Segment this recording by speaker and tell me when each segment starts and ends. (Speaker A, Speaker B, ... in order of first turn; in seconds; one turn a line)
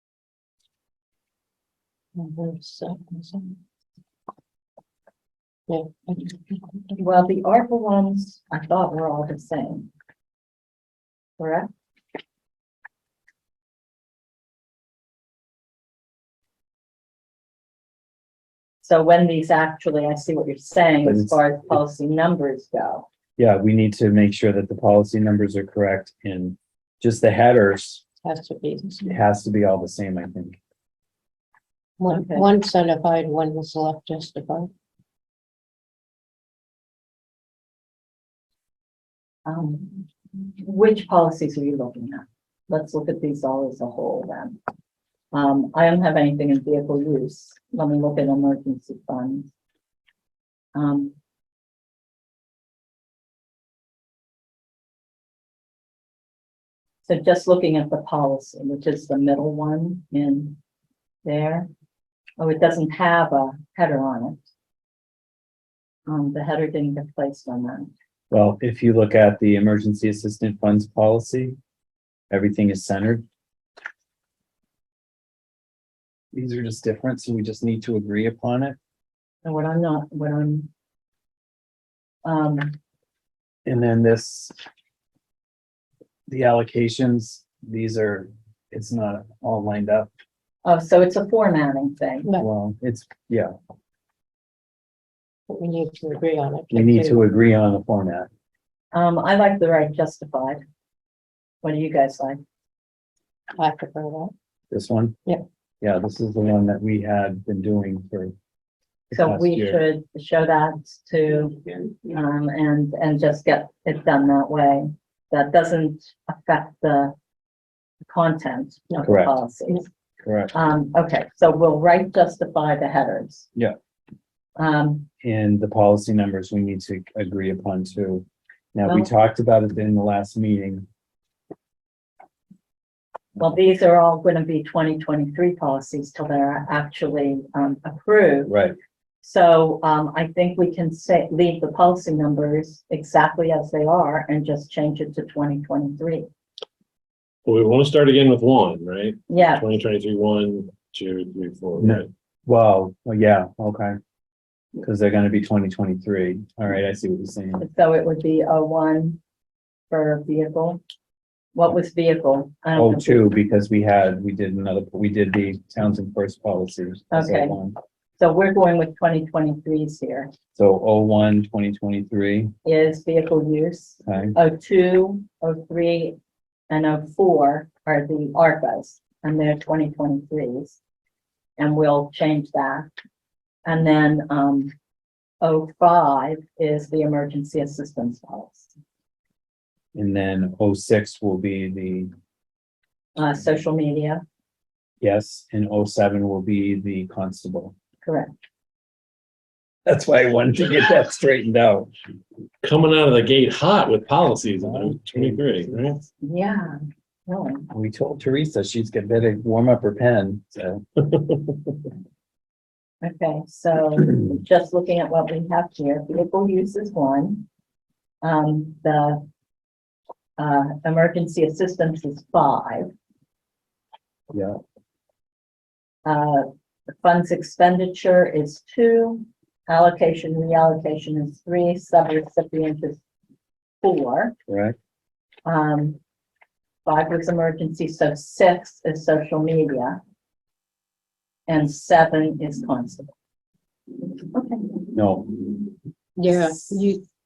Speaker A: 2.1-3.6
Speaker A: 5.7-7.0
Speaker B: 7.0-9.9
Speaker B: 11.4-11.7
Speaker B: 18.8-23.1
Speaker C: 21.0-21.8
Speaker C: 23.4-28.0
Speaker A: 28.2-29.2
Speaker C: 29.1-30.6
Speaker A: 32.0-34.7
Speaker B: 32.1-32.5
Speaker B: 39.5-44.6
Speaker B: 45.3-49.5
Speaker B: 50.7-51.1
Speaker B: 57.0-60.6
Speaker B: 61.2-61.7
Speaker B: 62.4-64.4
Speaker B: 66.1-67.9
Speaker C: 68.3-71.5
Speaker C: 72.3-73.2
Speaker C: 76.3-78.8
Speaker B: 79.4-80.7
Speaker B: 82.2-82.8
Speaker C: 83.6-84.5
Speaker C: 86.3-90.1
Speaker B: 90.6-92.3
Speaker C: 92.4-93.5
Speaker A: 95.5-97.2
Speaker C: 96.7-98.3
Speaker B: 98.9-100.6
Speaker B: 101.6-102.4
Speaker A: 103.5-104.3
Speaker C: 104.7-105.2
Speaker C: 105.8-108.3
Speaker B: 109.1-117.1
Speaker C: 109.4-109.6
Speaker B: 118.0-119.9
Speaker C: 119.0-119.3
Speaker C: 120.2-120.5
Speaker B: 120.5-123.5
Speaker B: 124.6-125.1
Speaker C: 125.2-130.8
Speaker B: 133.3-138.5
Speaker C: 138.5-138.7
Speaker B: 139.2-146.3
Speaker D: 147.4-152.1
Speaker B: 149.3-149.6
Speaker C: 151.8-154.0
Speaker C: 154.8-157.6
Speaker B: 157.6-159.2
Speaker B: 159.9-160.8
Speaker B: 161.5-163.3
Speaker C: 162.8-167.8
Speaker B: 167.1-167.6
Speaker B: 168.2-170.3
Speaker C: 170.5-172.5
Speaker B: 172.6-176.2
Speaker C: 174.1-174.3
Speaker B: 176.7-180.8
Speaker B: 181.6-182.9
Speaker B: 183.7-184.7
Speaker B: 185.4-188.7
Speaker C: 189.9-192.1
Speaker B: 193.2-194.2
Speaker C: 195.0-197.7
Speaker B: 198.0-198.3
Speaker C: 199.8-201.9
Speaker D: 202.6-206.0
Speaker C: 204.6-205.9
Speaker B: 206.2-207.7
Speaker C: 207.7-210.8
Speaker B: 213.0-217.5
Speaker B: 218.2-219.2
Speaker B: 220.4-222.9
Speaker C: 224.3-224.6
Speaker B: 226.0-233.0
Speaker B: 233.8-234.3
Speaker C: 234.5-234.8
Speaker B: 235.4-236.0
Speaker B: 236.8-240.0
Speaker B: 241.5-243.1
Speaker B: 244.3-244.8
Speaker C: 244.9-245.4
Speaker A: 246.2-247.0
Speaker B: 246.3-246.7